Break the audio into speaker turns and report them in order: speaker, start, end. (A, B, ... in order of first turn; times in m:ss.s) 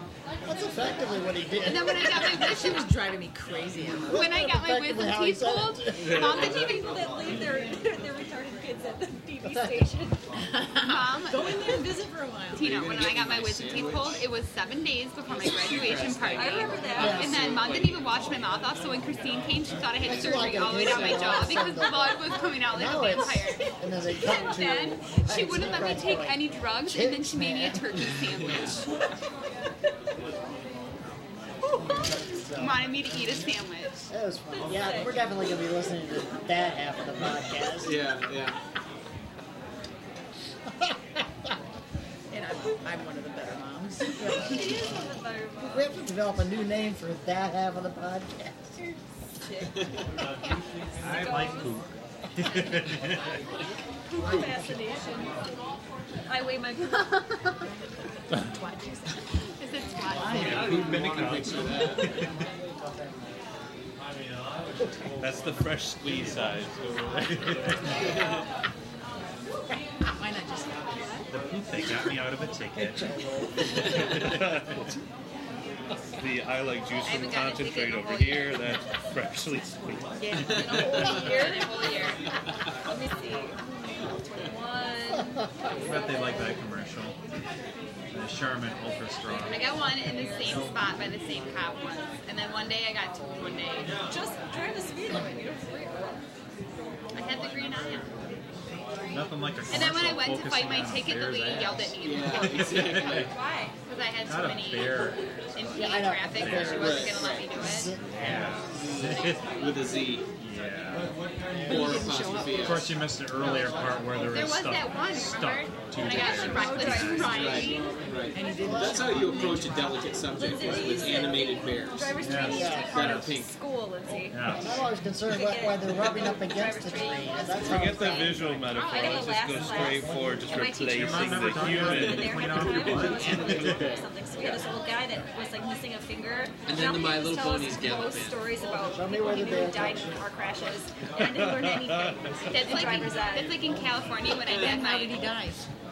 0:00.4-0:02.7 A
0:01.6-0:02.9 B
0:02.3-0:04.2 C
0:04.1-0:06.5 A
0:04.1-0:07.1 B
0:06.1-0:10.2 D
0:09.4-0:09.9 A
0:10.4-0:12.7 C
0:10.8-0:11.8 B
0:12.5-0:28.9 B
0:12.6-0:14.2 E
0:15.4-0:18.1 E
0:16.3-0:17.2 D
0:17.0-0:17.6 A
0:20.0-0:21.5 E
0:20.0-0:27.8 A
0:23.7-0:24.5 D
0:28.4-0:28.8 E
0:31.7-0:32.9 A
0:32.5-0:34.1 B
0:34.1-0:38.0 A
0:34.6-0:35.2 D
0:37.8-0:38.6 E
0:42.3-0:44.5 C
0:44.2-0:44.9 A
0:44.4-0:46.0 D
0:45.7-0:49.0 A
0:49.4-0:49.8 D
0:49.8-0:50.0 E
0:51.0-0:53.2 F
0:51.0-0:51.8 D
0:54.1-0:55.4 D
0:54.2-0:54.7 E
0:54.2-0:54.7 A
0:56.2-0:57.5 D
0:58.6-0:59.0 B
0:59.6-1:00.6 B
1:00.2-1:02.3 F
1:00.3-1:01.6 G
1:00.3-1:02.2 E
1:05.2-1:08.0 G
1:08.0-1:08.3 E
1:10.2-1:11.3 C
1:11.3-1:13.1 F
1:12.8-1:13.8 A
1:13.9-1:14.5 F
1:13.9-1:14.9 G
1:16.2-1:20.7 G
1:17.0-1:18.7 B
1:20.2-1:21.5 C
1:20.5-1:21.0 E
1:20.8-1:22.2 D
1:20.8-1:22.2 B
1:22.8-1:26.4 D
1:25.1-1:25.7 A
1:25.8-1:27.2 F
1:28.1-1:30.0 F
1:29.3-1:34.0 B
1:30.0-1:30.7 D
1:34.1-1:36.2 D
1:37.1-1:38.1 B
1:39.1-1:43.3 F
1:39.7-1:43.3 B
1:42.0-1:43.3 E
1:43.1-1:43.7 D
1:43.9-1:47.9 B
1:44.3-1:45.8 F
1:45.8-1:48.2 A
1:46.4-1:47.1 F
1:46.7-1:47.5 E
1:48.0-1:49.5 F
1:48.5-1:50.3 E
1:50.4-1:51.2 F
1:51.6-1:52.1 A
1:51.7-1:52.9 C
1:51.7-1:52.9 E
1:52.6-1:57.6 F
1:54.1-1:57.9 B
1:56.1-1:57.8 D
1:57.2-2:02.2 E
1:58.3-2:00.0 C
1:58.6-1:59.6 A
2:00.3-2:04.4 D
2:02.2-2:03.3 F
2:02.5-2:03.2 A
2:02.7-2:03.5 E
2:04.3-2:04.8 F
2:04.6-2:08.4 A
2:05.3-2:23.6 D
2:07.6-2:13.1 G
2:09.1-2:10.4 A
2:10.9-2:13.9 F
2:12.4-2:14.7 E
2:16.7-2:18.5 E
2:18.6-2:20.3 A
2:21.1-2:22.5 G
2:22.5-2:25.3 B
2:24.5-2:25.6 C